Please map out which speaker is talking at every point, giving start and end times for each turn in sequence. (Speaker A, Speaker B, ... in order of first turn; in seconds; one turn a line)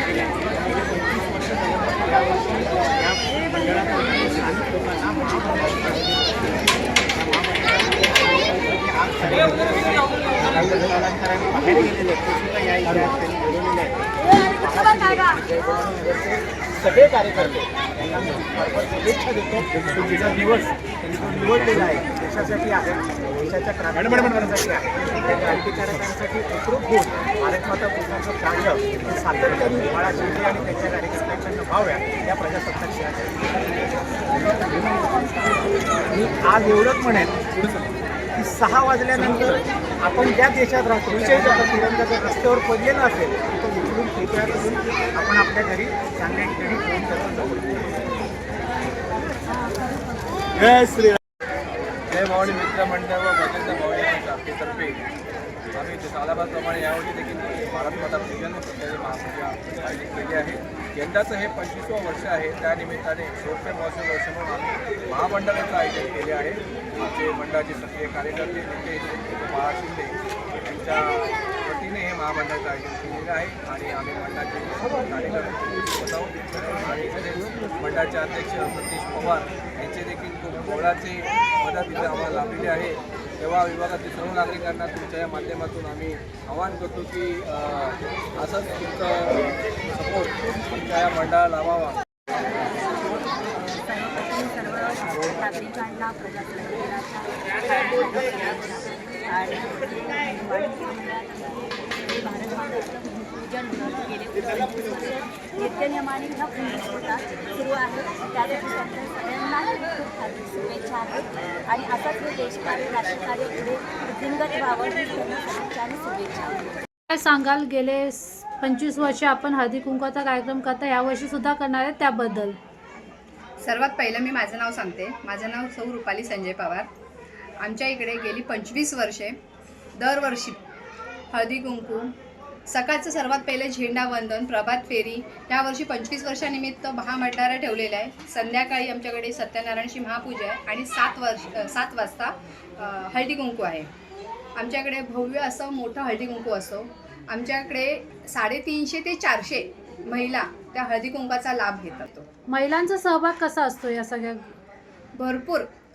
Speaker A: 0.6-13.9
Speaker A: 14.5-33.4
Speaker A: 36.1-37.8
Speaker A: 38.4-47.7
Speaker B: 52.1-55.0
Speaker B: 55.8-92.0
Speaker C: 93.1-93.3
Speaker C: 93.8-116.8
Speaker D: 117.1-122.6
Speaker E: 123.6-126.9
Speaker E: 127.6-129.4
Speaker E: 130.0-130.6
Speaker E: 131.3-132.1
Speaker E: 132.7-143.9
Speaker E: 144.6-152.3
Speaker D: 152.5-154.5
Speaker E: 155.2-155.7